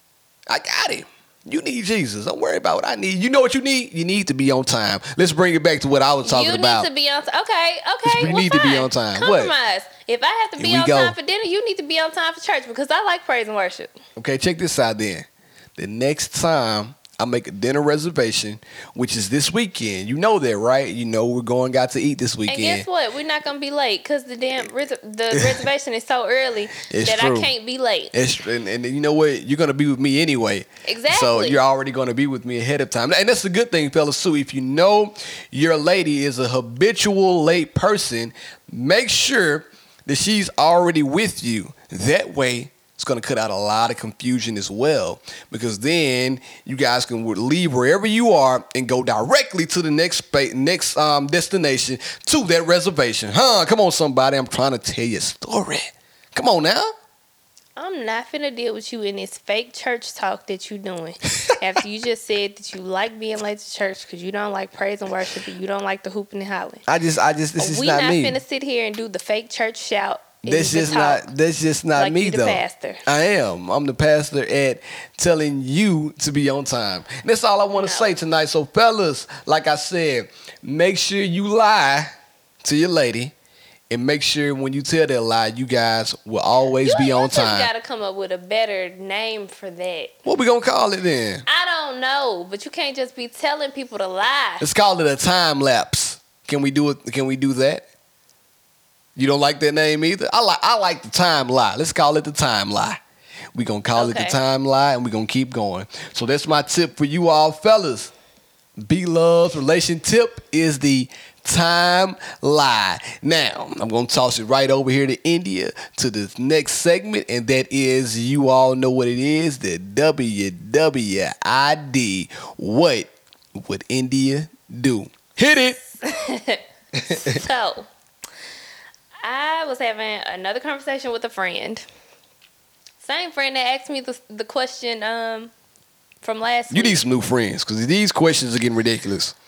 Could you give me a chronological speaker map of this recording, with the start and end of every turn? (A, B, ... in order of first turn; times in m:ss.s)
0:00.5-0:06.9 A
0:06.2-0:13.9 B
0:08.0-0:09.5 A
0:10.6-0:11.2 A
0:14.2-0:22.8 A
0:22.5-0:28.1 B
0:25.3-0:25.6 A
0:26.8-0:27.5 A
0:28.1-0:56.9 A
0:30.8-0:31.6 B
0:57.8-1:06.8 B
1:06.9-1:08.4 A
1:07.6-1:11.3 B
1:10.4-1:22.1 A
1:12.0-1:13.0 B
1:17.7-1:18.1 B
1:22.6-1:23.3 A
1:23.9-1:27.7 A
1:26.8-1:30.1 B
1:30.2-1:31.4 A
1:31.4-1:34.6 B
1:34.6-1:37.8 A
1:39.2-1:43.0 A
1:43.5-1:48.1 A
1:43.9-1:44.4 B
1:48.8-2:05.8 A
2:06.0-2:07.9 B
2:06.9-2:07.4 A
2:09.2-2:11.8 B
2:13.0-2:15.5 B
2:16.2-2:17.0 B
2:16.7-2:19.3 A